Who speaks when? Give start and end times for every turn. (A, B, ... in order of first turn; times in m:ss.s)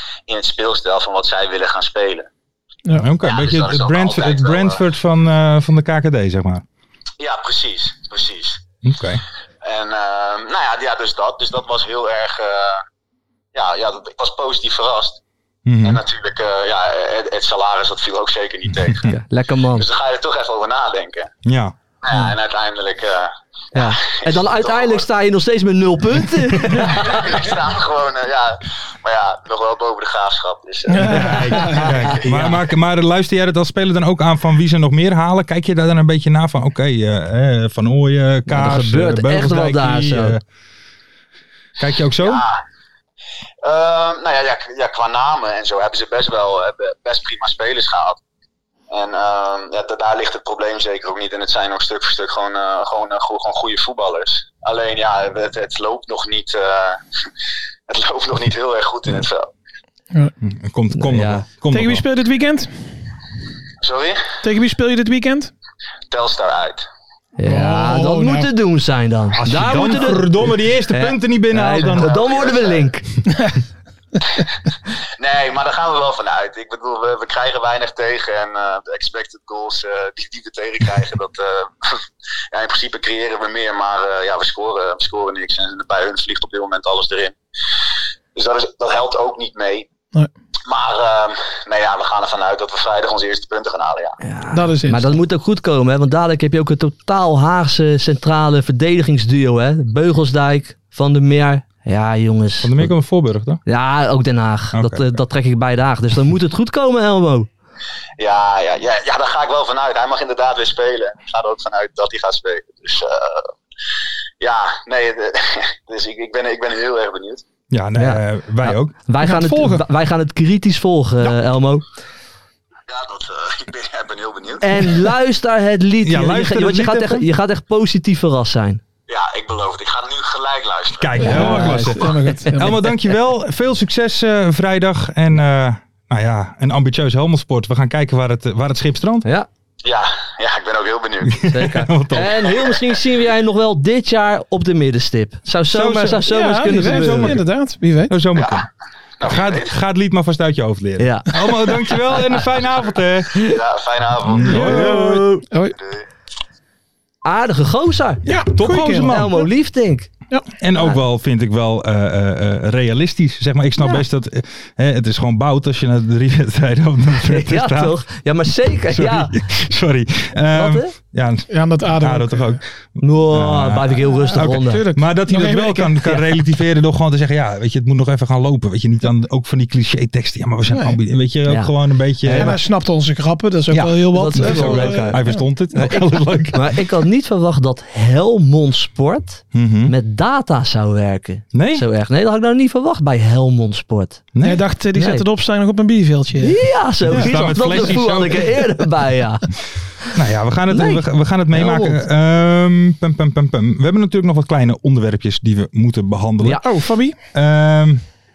0:00.3-0:02.3 A
0:03.0-0:06.6 B
0:03.2-0:04.8 A
0:07.2-0:08.6 A
0:08.8-0:09.2 B
0:09.6-0:12.8 A
0:13.5-0:15.2 A
0:15.6-0:16.0 B
0:15.8-0:19.1 A
0:18.8-0:19.1 B
0:19.0-0:19.9 C
0:19.7-0:21.3 A
0:21.4-0:21.7 B
0:22.0-0:25.1 A
0:23.7-0:27.4 C
0:26.8-0:32.2 A
0:30.9-0:31.9 D
0:31.0-0:40.4 B
0:32.1-0:32.6 C
0:38.5-0:40.4 C
0:41.8-0:42.4 B
0:42.2-0:42.6 A
0:43.6-0:48.2 A
0:48.9-0:57.0 A
0:57.9-0:59.5 A
1:00.4-1:02.0 B
1:00.9-1:01.4 C
1:01.7-1:02.7 D
1:03.8-1:04.4 A
1:04.4-1:05.5 D
1:06.1-1:06.9 A
1:07.4-1:10.4 C
1:07.4-1:08.5 D
1:09.4-1:12.1 B
1:10.9-1:13.0 C
1:11.8-1:12.9 A
1:15.2-1:27.4 A
1:28.3-1:29.9 A
1:30.7-1:34.2 A
1:34.2-1:42.9 C
1:34.5-1:35.2 D
1:42.6-1:43.6 B
1:43.6-1:47.5 C
1:44.7-1:45.2 B
1:48.2-1:53.5 A
1:54.4-1:57.4 A
1:57.7-1:58.9 B
1:58.0-2:01.8 C
1:59.2-1:59.8 D
2:02.9-2:05.1 A
2:04.6-2:08.8 C
2:06.0-2:07.3 B
2:09.1-2:11.4 A
2:11.0-2:19.2 B
2:11.2-2:12.8 D
2:11.2-2:12.6 C
2:19.8-2:21.4 A
2:21.2-2:22.4 B
2:21.5-2:27.4 C
2:22.3-2:23.0 A
2:25.7-2:27.5 B
2:26.3-2:28.1 D
2:28.1-2:28.7 B
2:28.3-2:28.6 A
2:29.2-2:29.7 A
2:29.2-2:33.4 B
2:31.0-2:31.3 C
2:33.4-2:34.8 A
2:34.2-2:35.3 B
2:34.4-2:35.4 C
2:34.5-2:35.7 D
2:37.2-2:38.2 C
2:38.2-2:39.4 D
2:38.2-2:39.5 B
2:39.0-2:40.1 C
2:40.6-2:48.0 B
2:47.2-2:49.4 C
2:48.9-3:02.6 B
2:50.5-2:50.9 C
2:51.5-2:52.6 D
2:53.0-2:54.8 C
2:54.3-2:56.0 D
3:00.7-3:01.0 D
3:01.5-3:02.6 C
3:02.3-3:05.4 D
3:03.7-3:06.8 B
3:04.1-3:05.2 C
3:05.7-3:14.2 C
3:09.5-3:09.9 B
3:11.5-3:11.8 B
3:14.3-3:14.6 B
3:14.4-3:17.8 D
3:14.9-3:15.2 C
3:16.4-3:19.5 C
3:17.0-3:18.7 B
3:20.1-3:26.7 B
3:20.7-3:22.0 C
3:26.6-3:27.1 D
3:27.3-3:28.0 B